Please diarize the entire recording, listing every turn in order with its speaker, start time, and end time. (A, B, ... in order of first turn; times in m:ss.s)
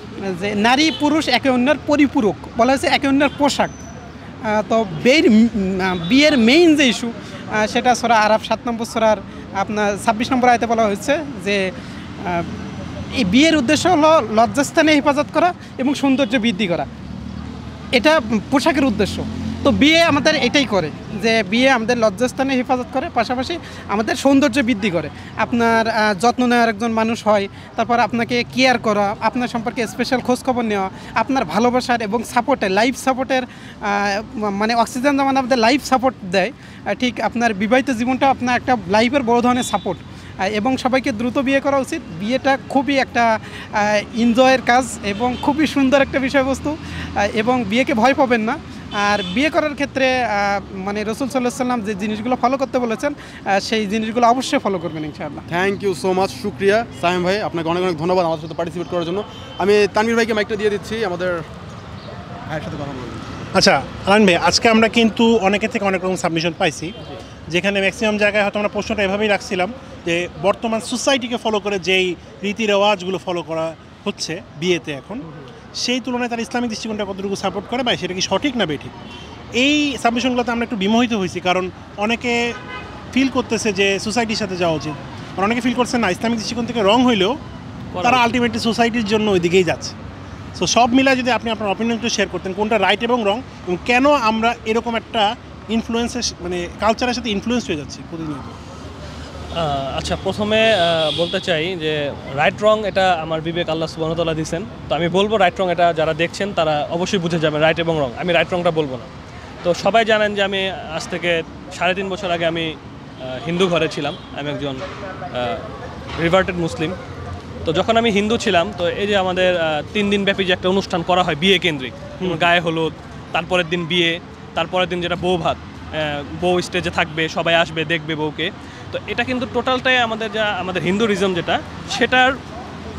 0:00.3-0:03.7 A
0:04.5-0:11.7 A
0:13.2-0:16.9 A
0:18.0-0:55.4 A
0:55.5-1:01.5 B
1:02.5-1:03.5 B
1:03.5-1:06.9 C
1:07.5-1:15.2 C
1:15.8-1:18.9 C
1:19.6-1:22.6 C
1:23.1-1:27.4 C
1:27.9-1:28.3 D
1:28.0-1:30.0 C
1:30.6-1:38.6 C
1:39.6-1:49.1 D
1:49.6-1:55.6 D
1:56.2-1:57.0 D
1:57.7-2:12.4 D
2:02.2-2:02.5 C